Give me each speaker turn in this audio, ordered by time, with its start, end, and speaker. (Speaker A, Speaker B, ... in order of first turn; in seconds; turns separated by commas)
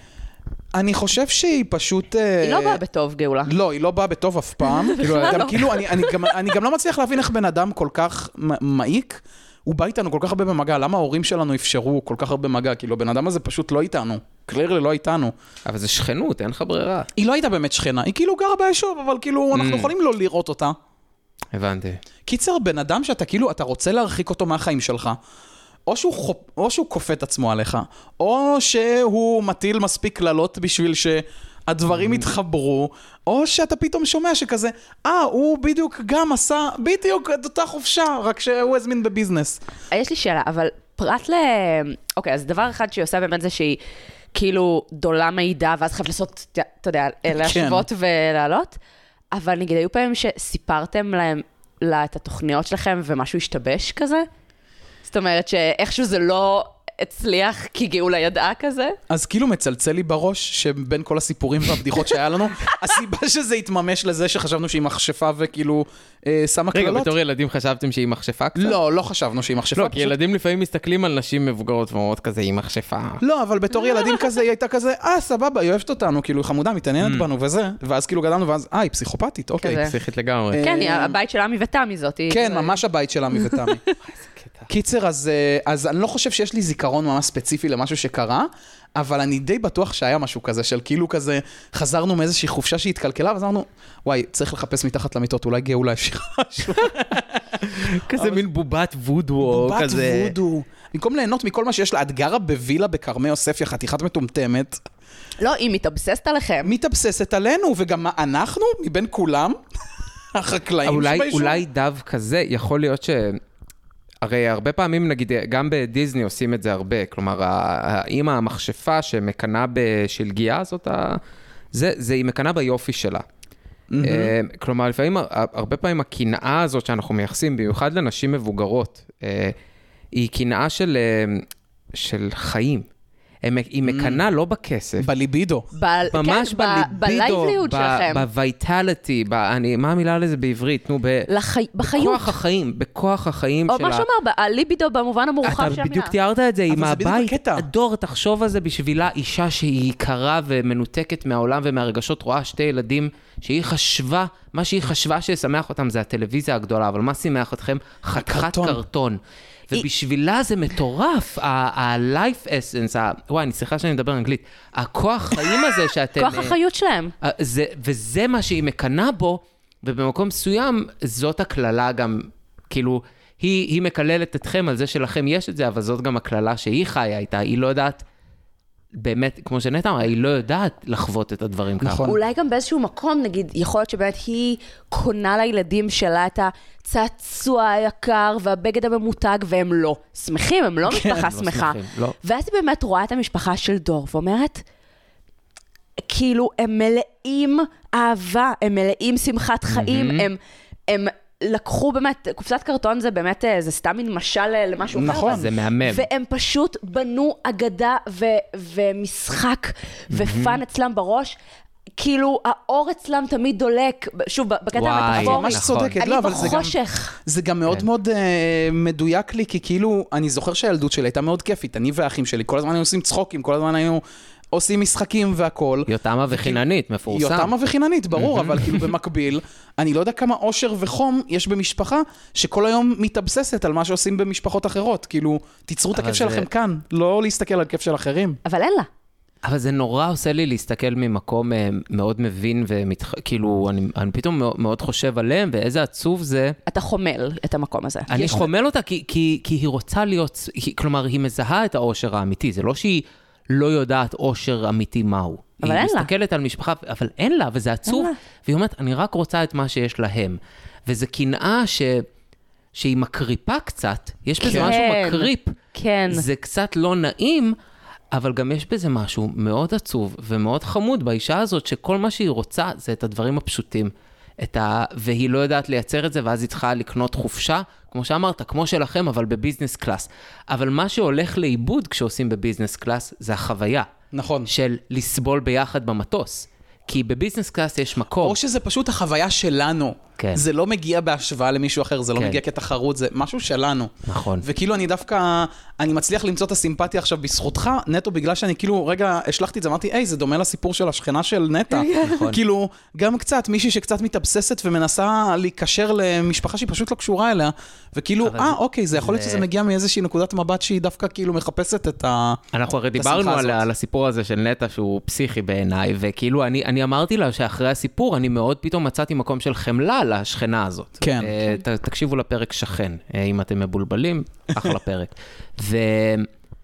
Speaker A: 0.7-2.8, Speaker B: 2.4-3.5, Speaker A: 3.5-15.3, Speaker B: 4.6-6.3, Speaker C: 5.1-5.4, Speaker C: 15.7-17.1, Speaker A: 17.1-20.8, Speaker C: 19.5-19.9, Speaker C: 21.5-22.0, Speaker A: 22.2-25.2, Speaker A: 25.9-39.6, Speaker B: 39.9-43.8, Speaker B: 44.3-48.8, Speaker A: 47.3-47.8, Speaker B: 49.3-54.3, Speaker B: 55.0-59.0, Speaker A: 59.1-67.1, Speaker C: 66.7-68.8, Speaker A: 68.5-70.1, Speaker C: 69.7-73.2, Speaker A: 73.2-79.8, Speaker C: 77.0-77.2, Speaker B: 79.6-79.9, Speaker C: 79.7-80.6, Speaker A: 80.5-81.2, Speaker B: 80.6-82.8, Speaker A: 82.3-83.8, Speaker C: 84.0-84.7, Speaker A: 84.7-98.4, Speaker C: 97.6-100.3, Speaker A: 99.4-104.8, Speaker B: 105.4-106.7, Speaker A: 106.6-109.6, Speaker A: 110.3-111.6, Speaker C: 110.8-113.4, Speaker C: 114.2-121.2, Speaker C: 121.7-123.2, Speaker A: 123.9-124.3, Speaker C: 124.0-129.5, Speaker C: 130.1-132.8, Speaker C: 133.4-135.1, Speaker A: 133.8-134.2, Speaker A: 135.0-135.7, Speaker B: 135.7-138.2, Speaker C: 136.1-141.3, Speaker B: 141.3-142.3, Speaker C: 141.8-144.1, Speaker B: 143.7-146.1, Speaker C: 145.4-159.2, Speaker A: 146.7-147.7, Speaker A: 158.2-158.8, Speaker C: 159.7-166.6, Speaker B: 166.2-167.1, Speaker C: 167.2-178.0, Speaker C: 178.9-182.1, Speaker A: 181.8-182.2, Speaker B: 182.0-194.6, Speaker C: 190.9-192.1, Speaker B: 196.0-211.4, Speaker C: 199.7-200.3, Speaker A: 204.9-205.5, Speaker C: 205.0-206.1, Speaker C: 210.1-210.6, Speaker B: 212.0-217.2, Speaker C: 214.8-216.0, Speaker A: 215.1-238.4, Speaker C: 225.9-227.5, Speaker C: 228.1-228.9, Speaker C: 235.9-236.5, Speaker B: 238.4-238.9, Speaker C: 239.4-246.6, Speaker B: 246.7-248.4, Speaker C: 248.1-262.1, Speaker B: 255.6-256.1, Speaker B: 257.9-258.2, Speaker C: 262.7-265.5, Speaker B: 264.4-266.2, Speaker A: 264.4-264.7, Speaker C: 266.1-267.6, Speaker C: 268.1-283.9, Speaker A: 284.1-284.5, Speaker C: 284.5-288.4, Speaker A: 288.2-312.4, Speaker C: 290.2-290.4, Speaker C: 292.1-292.4, Speaker C: 294.1-294.4, Speaker B: 301.7-302.3, Speaker C: 302.0-302.4, Speaker C: 308.2-309.4, Speaker C: 312.5-326.3, Speaker A: 312.9-313.7, Speaker A: 321.0-321.4